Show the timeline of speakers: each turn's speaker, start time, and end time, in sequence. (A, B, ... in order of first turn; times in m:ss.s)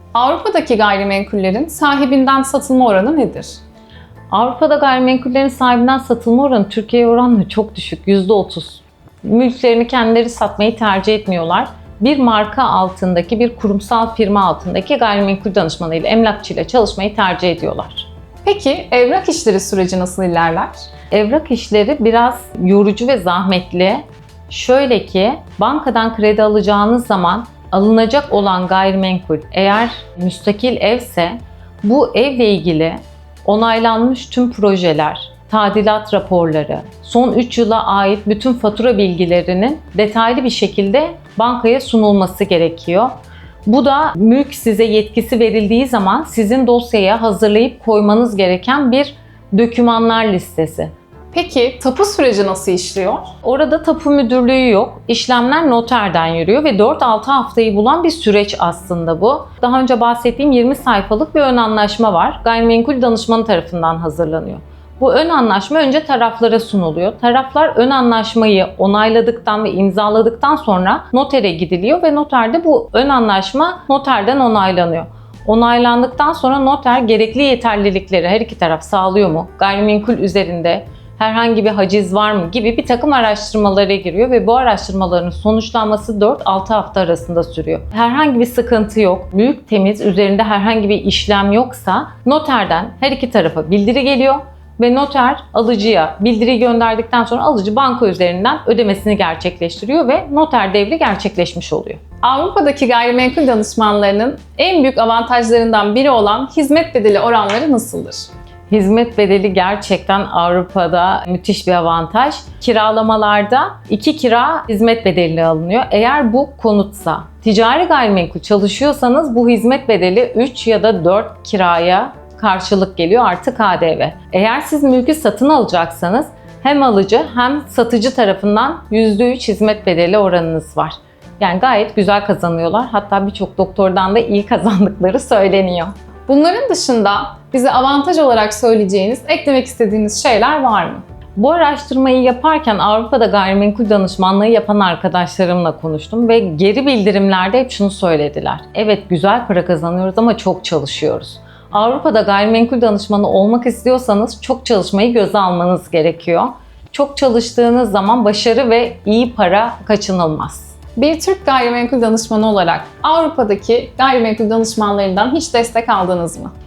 0:00.1-0:03.6 A
0:04.3-0:18.1 B
0:18.4-0:20.8 A
0:21.1-0:43.1 B
0:43.6-0:50.9 B
0:51.3-0:53.3 A
0:53.4-1:42.0 B
1:42.2-1:48.3 A
1:48.7-2:15.9 B
2:16.3-2:21.0 A
2:21.4-2:40.8 B
2:41.0-2:46.5 A